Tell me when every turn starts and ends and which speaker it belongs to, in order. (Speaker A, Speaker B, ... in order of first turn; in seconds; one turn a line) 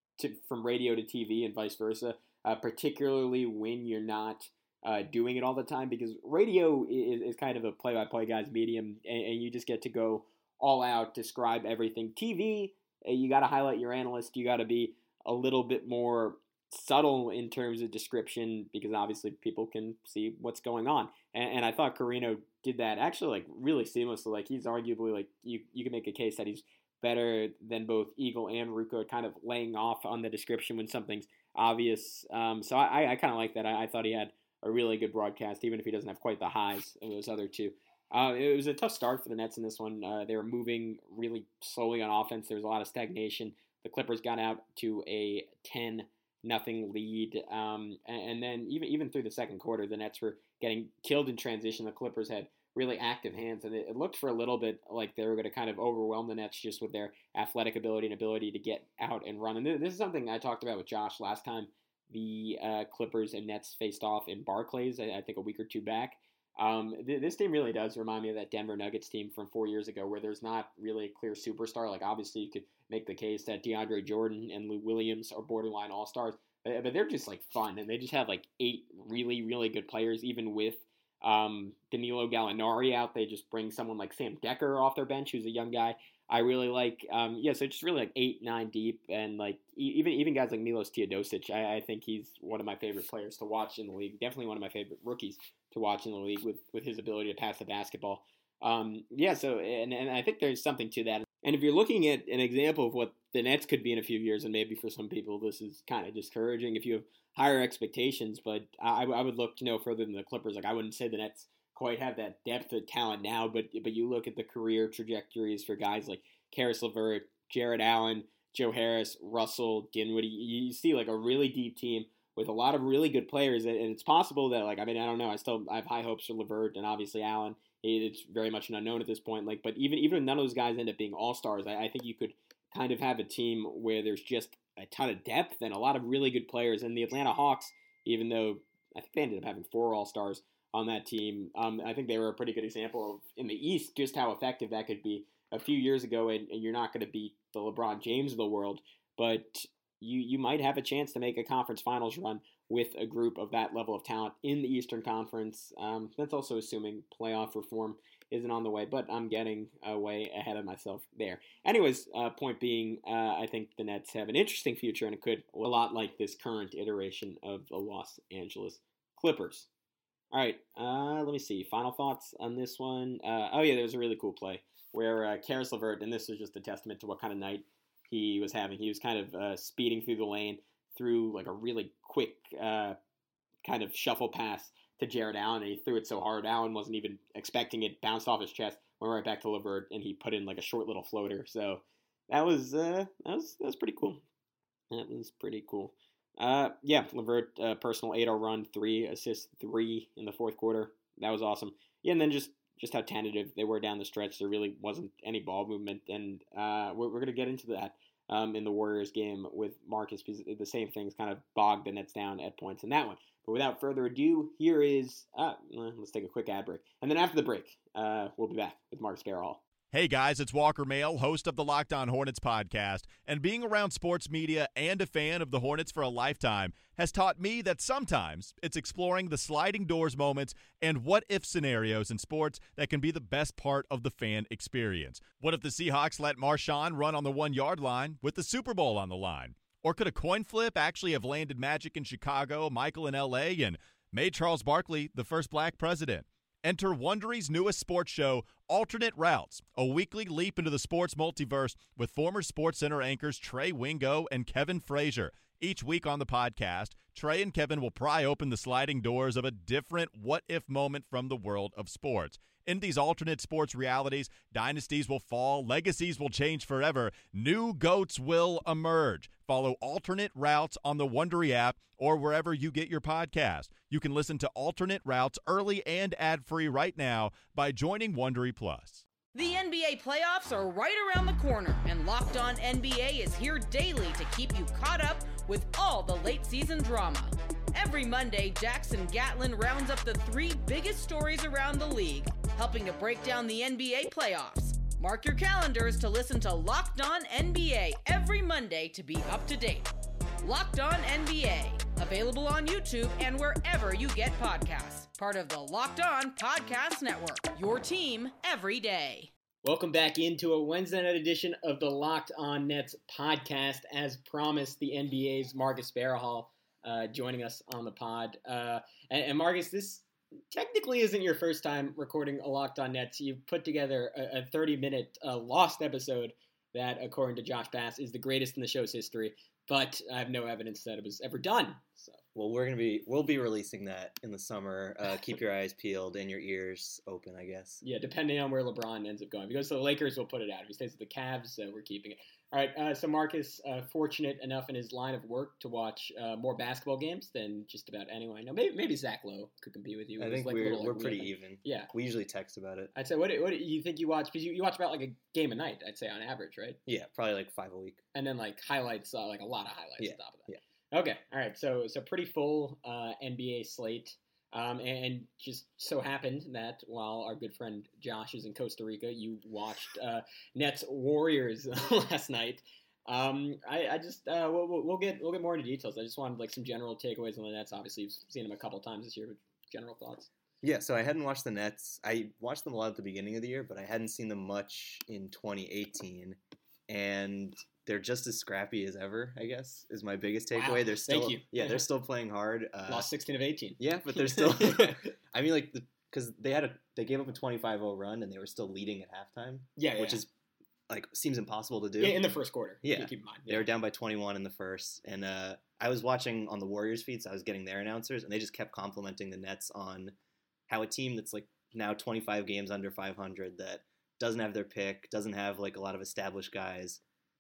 Speaker A: 0.2-169.7
Speaker A: 170.3-183.0
Speaker A: 183.6-194.2
Speaker A: 194.9-219.6
Speaker B: 219.9-279.0
Speaker C: 279.3-299.9
Speaker C: 300.4-309.3
Speaker A: 309.6-332.2
Speaker D: 332.3-337.8
Speaker A: 337.8-351.9
Speaker D: 350.2-352.9
Speaker A: 352.9-356.8
Speaker D: 356.9-358.0
Speaker A: 358.1-380.3
Speaker D: 360.0-360.6
Speaker D: 380.6-393.1
Speaker A: 390.5-391.8
Speaker A: 392.9-395.1
Speaker D: 393.8-400.3
Speaker A: 399.8-400.2
Speaker D: 400.9-402.2
Speaker A: 402.0-403.7
Speaker D: 402.8-410.1
Speaker D: 410.7-417.0